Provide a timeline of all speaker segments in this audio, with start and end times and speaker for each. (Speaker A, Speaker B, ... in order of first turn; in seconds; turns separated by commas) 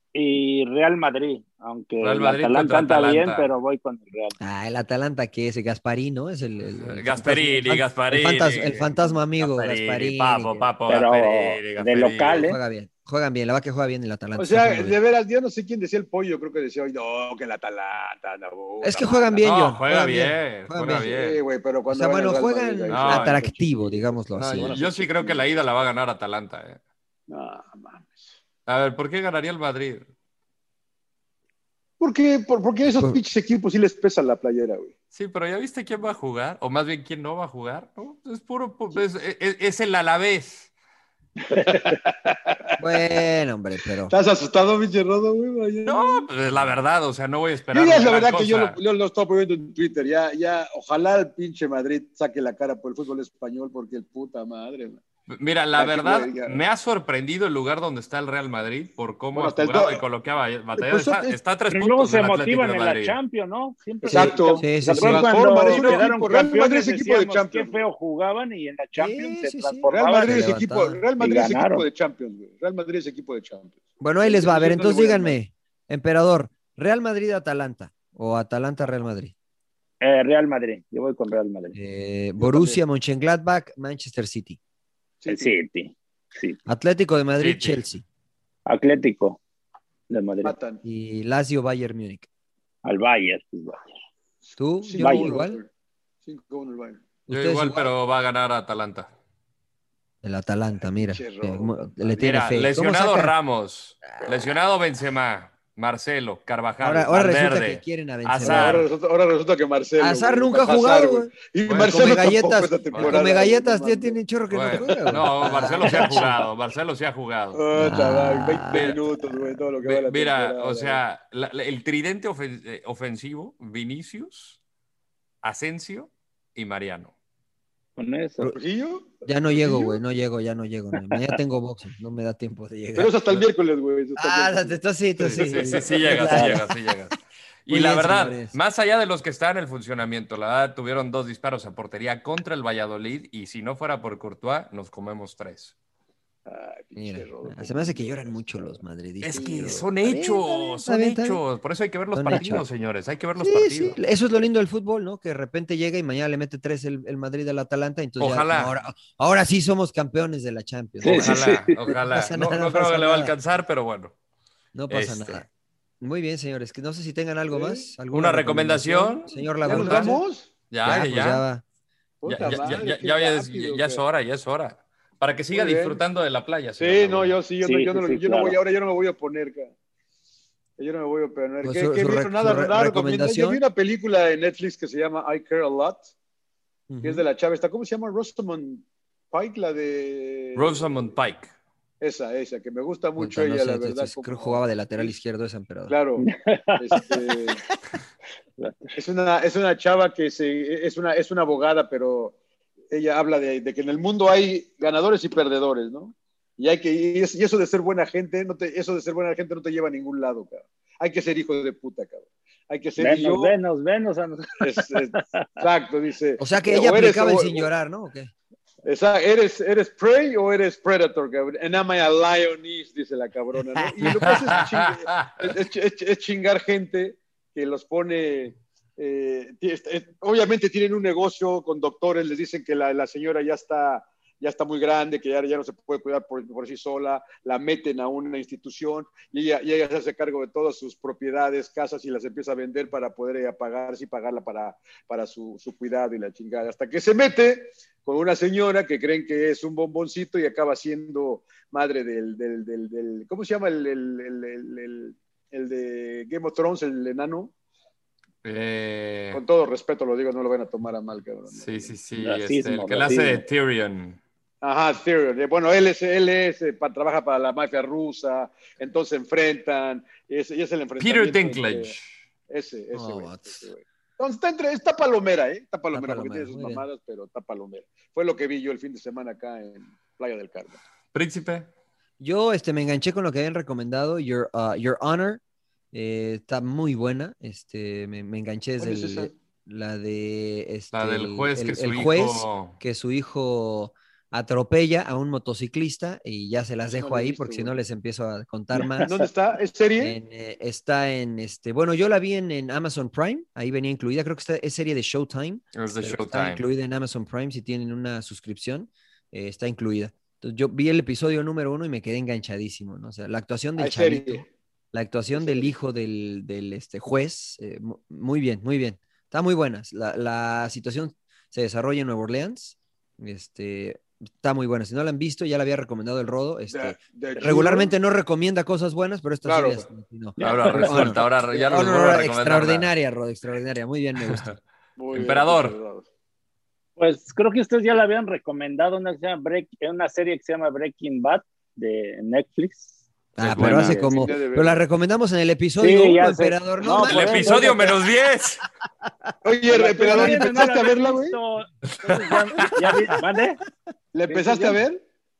Speaker A: 0.1-4.4, Speaker B: 2.0-3.5, Speaker C: 4.4-10.7, Speaker B: 6.8-12.4, Speaker A: 10.9-12.6, Speaker C: 12.3-15.0, Speaker D: 14.4-19.4, Speaker C: 18.8-21.1, Speaker B: 19.4-21.4, Speaker D: 21.0-25.6, Speaker C: 21.9-24.8, Speaker B: 22.9-23.4, Speaker B: 24.4-26.8, Speaker D: 27.3-28.3, Speaker B: 28.7-30.1, Speaker D: 32.0-34.9, Speaker B: 35.1-40.7, Speaker D: 41.5-42.7, Speaker C: 42.8-44.1, Speaker D: 44.1-46.3, Speaker B: 45.9-48.8, Speaker D: 47.7-55.0, Speaker B: 55.3-63.2, Speaker D: 55.8-56.6, Speaker D: 59.3-60.0, Speaker D: 60.8-61.4, Speaker A: 61.7-70.5, Speaker C: 64.0-65.3, Speaker D: 64.1-67.8, Speaker B: 65.7-66.0, Speaker C: 69.0-71.0, Speaker D: 69.9-75.4, Speaker A: 71.2-71.9, Speaker C: 74.0-79.3, Speaker A: 80.0-81.8, Speaker C: 81.7-84.6, Speaker D: 82.4-82.8, Speaker D: 85.2-85.5, Speaker A: 85.3-86.6, Speaker C: 86.7-88.0, Speaker B: 87.4-87.8, Speaker A: 88.7-89.4, Speaker A: 90.1-90.5, Speaker D: 90.4-90.8, Speaker C: 90.8-92.3, Speaker A: 92.8-93.9, Speaker D: 94.5-95.7, Speaker C: 94.6-95.6, Speaker A: 95.0-95.3, Speaker D: 96.2-97.0, Speaker C: 97.3-97.9, Speaker B: 97.3-99.1, Speaker C: 100.2-103.3, Speaker D: 100.8-102.3, Speaker B: 102.2-108.9, Speaker C: 106.8-108.9, Speaker D: 108.4-114.2, Speaker C: 110.0-111.3, Speaker B: 111.6-112.3, Speaker C: 111.8-116.4, Speaker B: 112.9-113.2, Speaker B: 114.5-117.6, Speaker D: 114.7-115.0, Speaker D: 117.5-121.0, Speaker C: 117.7-119.6, Speaker B: 118.7-119.0, Speaker B: 119.8-124.6, Speaker B: 125.4-127.1, Speaker A: 128.0-128.5, Speaker D: 128.5-130.0, Speaker C: 129.2-133.1, Speaker D: 132.9-134.8, Speaker C: 134.2-136.7, Speaker B: 135.2-145.7, Speaker D: 135.4-136.4, Speaker C: 137.7-138.6, Speaker D: 146.4-148.8, Speaker C: 146.9-151.4, Speaker B: 149.2-154.0, Speaker D: 149.3-149.9, Speaker C: 152.1-152.7, Speaker C: 153.4-163.3, Speaker B: 158.2-158.7, Speaker A: 161.0-161.8, Speaker B: 161.0-164.1, Speaker C: 164.7-165.5, Speaker B: 164.9-165.4, Speaker C: 166.0-170.2, Speaker D: 167.5-167.9, Speaker B: 168.1-170.2, Speaker D: 169.6-170.5, Speaker B: 170.7-171.4, Speaker C: 170.8-171.6, Speaker D: 172.2-174.0, Speaker B: 172.3-177.4, Speaker D: 175.5-176.0, Speaker D: 176.8-179.7, Speaker A: 177.6-178.6, Speaker D: 180.8-186.1, Speaker C: 181.6-183.6, Speaker C: 186.9-187.2, Speaker D: 187.0-191.1, Speaker B: 190.6-191.5, Speaker D: 192.0-195.1, Speaker C: 193.2-195.9, Speaker D: 195.9-197.6, Speaker A: 196.2-197.1, Speaker A: 198.6-198.9, Speaker D: 198.9-202.4, Speaker D: 202.9-213.5, Speaker A: 213.0-215.6, Speaker D: 214.6-217.7, Speaker C: 216.4-218.3, Speaker D: 218.8-257.5, Speaker C: 223.8-224.3, Speaker B: 224.0-225.5, Speaker B: 258.4-259.4, Speaker D: 259.3-261.9, Speaker B: 261.5-264.2, Speaker A: 262.2-263.4, Speaker D: 264.6-271.9, Speaker B: 271.0-272.1, Speaker D: 272.5-280.8, Speaker C: 272.9-273.6, Speaker C: 275.9-276.8, Speaker B: 281.1-281.7, Speaker C: 282.2-285.4, Speaker C: 285.9-299.1, Speaker D: 288.8-289.3, Speaker B: 290.9-292.8, Speaker D: 296.9-297.8, Speaker D: 298.7-300.2, Speaker C: 300.0-334.5, Speaker B: 305.7-306.6, Speaker D: 313.8-314.5, Speaker D: 315.3-315.7, Speaker D: 326.7-327.9, Speaker D: 329.4-329.9, Speaker A: 330.4-331.1, Speaker B: 330.4-332.9, Speaker B: 334.2-334.6, Speaker D: 335.0-336.1, Speaker B: 335.1-335.8, Speaker A: 337.0-342.9, Speaker C: 343.4-347.7, Speaker B: 343.4-344.0, Speaker A: 343.6-344.3, Speaker D: 344.1-344.8, Speaker A: 345.8-348.0, Speaker B: 346.9-348.6, Speaker D: 349.4-351.4, Speaker A: 349.7-353.6, Speaker B: 351.9-352.7, Speaker D: 354.1-355.0, Speaker A: 354.3-354.8